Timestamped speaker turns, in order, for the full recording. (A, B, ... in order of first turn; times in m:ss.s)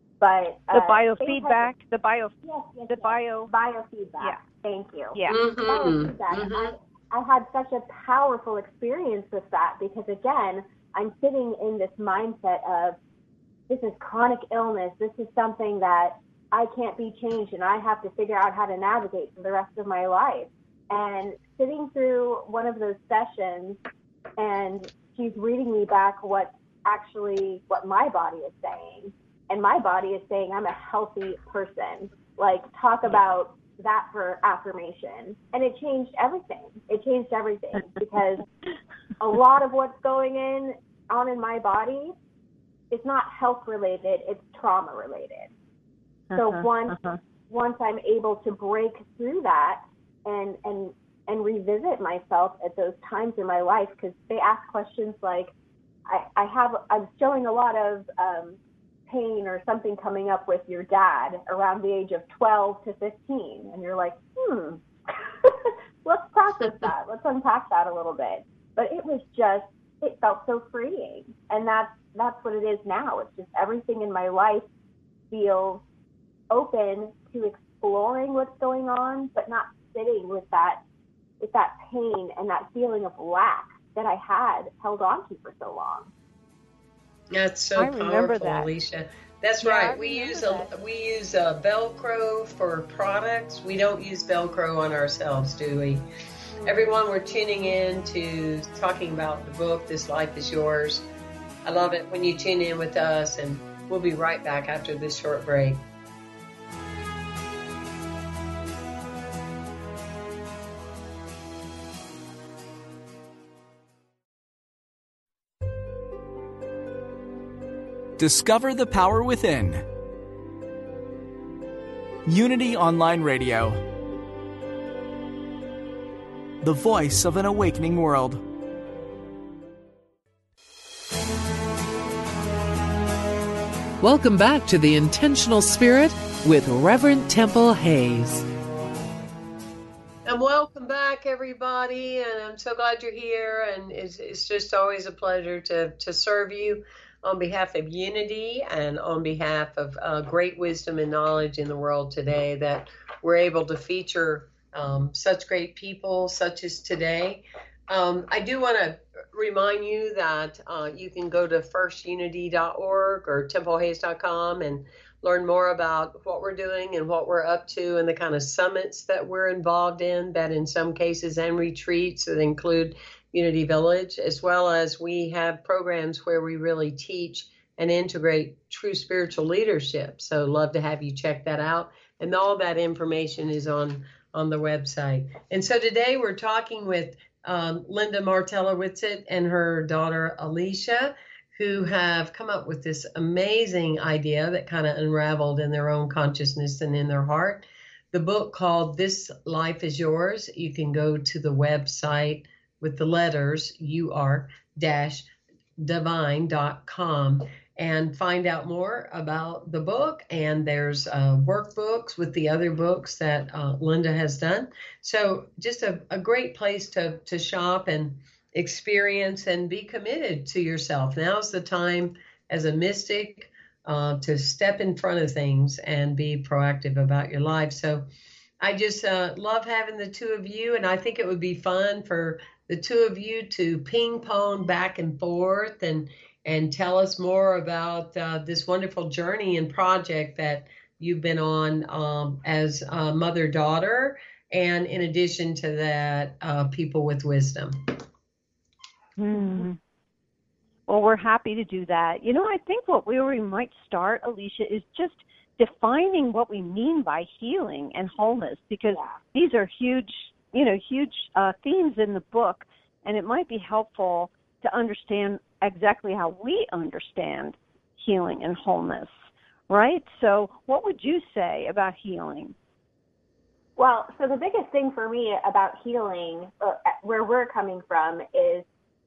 0:00.2-0:01.7 A
0:00.7-0:02.3 B
0:02.4-0:13.0 A
0:02.9-0:03.5 B
0:05.1-0:05.4 B
0:05.3-0:06.7 C
0:13.7-0:23.8 A
0:24.4-0:38.5 A
0:39.2-0:42.2 A
0:42.9-0:45.5 A
0:46.3-0:47.2 B
0:46.3-0:55.5 A
0:56.1-1:14.7 A
1:15.3-1:15.8 A
1:16.5-1:20.8 A
1:21.4-1:26.1 A
1:27.3-1:36.1 C
1:27.8-1:28.7 B
1:29.6-1:30.7 B
1:36.6-1:41.1 C
1:41.6-1:45.8 C
1:58.2-1:59.8 D
2:02.3-2:03.8 D
2:06.6-2:08.4 D
2:14.0-2:18.4 E
2:20.3-3:48.1 C
3:48.6-4:08.0 C
4:09.2-4:09.8 B
4:10.9-4:32.6 B
4:33.8-4:38.7 A